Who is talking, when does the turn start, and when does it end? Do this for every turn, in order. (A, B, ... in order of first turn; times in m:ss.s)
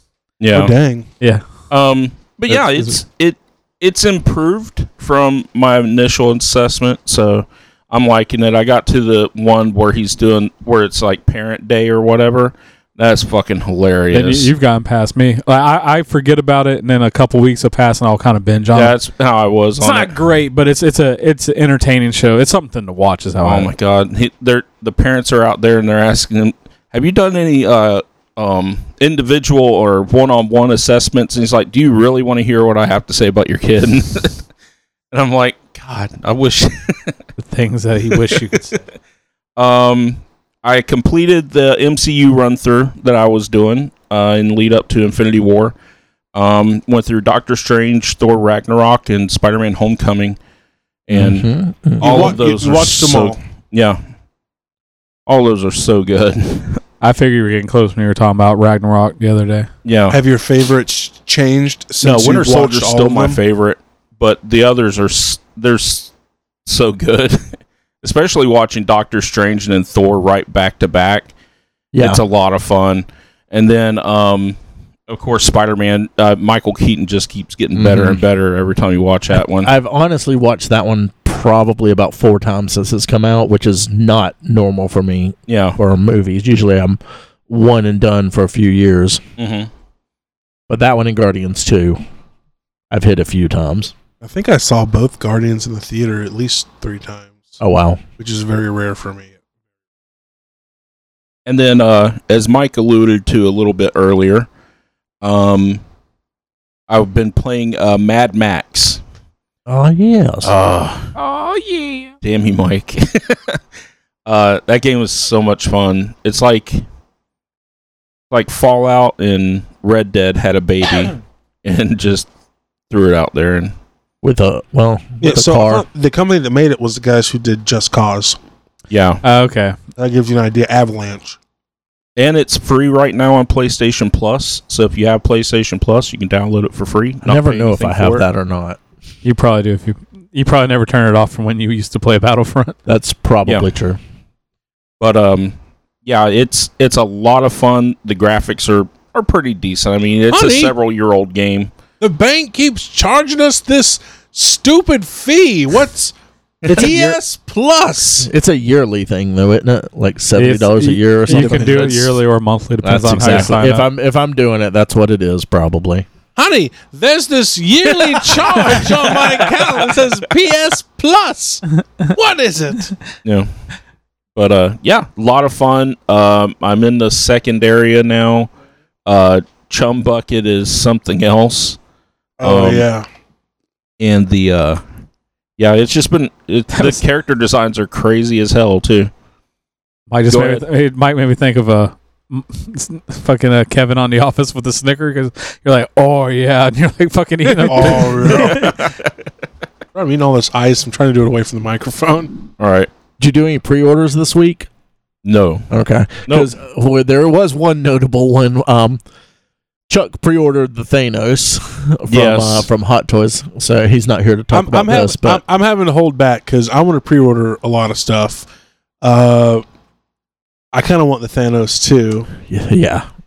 0:00.4-0:00.7 A
0:00.5-0:01.1 B
0:01.7-0:14.5 A
0:02.5-0:02.9 C
0:14.1-0:19.0 C
0:18.7-0:20.2 A
0:19.8-0:23.7 C
0:23.4-0:34.4 A
0:35.1-0:37.2 A
0:37.4-0:38.8 C
0:39.6-0:45.8 A
0:46.3-0:50.4 A
0:51.1-0:51.5 A
0:51.1-0:52.3 D
0:52.0-0:54.0 A
0:52.0-0:53.4 B
0:55.3-0:56.8 A
0:57.0-0:59.7 C
0:59.8-1:00.2 A
1:00.1-1:03.4 B
1:02.0-1:06.1 A
1:06.7-1:11.3 A
1:11.9-1:12.2 D
1:12.0-1:14.6 A
1:15.1-1:19.7 A
1:17.7-1:18.2 D
1:19.3-1:29.2 D
1:25.5-1:25.8 A
1:29.4-1:29.7 A
1:30.7-1:32.0 D
1:32.9-1:33.9 D
1:34.2-1:37.6 B
1:37.6-1:38.0 D
1:38.2-1:39.4 B
1:41.5-1:44.5 A
1:45.2-1:45.8 A
1:46.9-1:49.0 A
1:49.7-1:50.6 D
1:50.4-1:53.6 A
1:54.3-1:56.8 A
1:58.3-2:02.3 A
2:02.9-2:03.7 A
2:04.2-2:05.8 D
2:05.2-2:08.4 B
2:08.9-2:09.2 A
2:09.2-2:09.8 C
2:10.0-2:11.4 B
2:12.2-2:18.2 A
2:17.2-2:18.8 D
2:19.2-2:22.8 C
2:22.9-2:24.0 D
2:25.0-2:31.7 A
2:30.3-2:30.7 B
2:32.0-2:36.2 B
2:36.7-2:38.3 B
2:38.2-2:41.9 D
2:40.4-2:43.9 C
2:41.3-2:42.1 B
2:42.8-2:46.1 D
2:46.4-2:52.9 B
2:54.4-2:58.5 A
2:59.1-3:01.8 A
3:02.4-3:03.1 B
3:02.4-3:02.8 A
3:04.0-3:04.8 A
3:05.6-3:09.1 A
3:06.7-3:07.0 C
3:10.1-3:18.7 C
3:10.3-3:10.6 A
3:17.6-3:18.8 B
3:18.4-3:19.1 A
3:19.9-3:22.3 B
3:22.6-3:22.9 A
3:23.2-3:24.7 D
3:25.2-3:25.7 A
3:25.7-3:29.0 D
3:29.9-3:35.4 D
3:32.1-3:32.7 A
3:34.5-3:38.5 B
3:39.0-3:39.6 B
3:40.7-3:42.3 B
3:42.5-3:43.1 D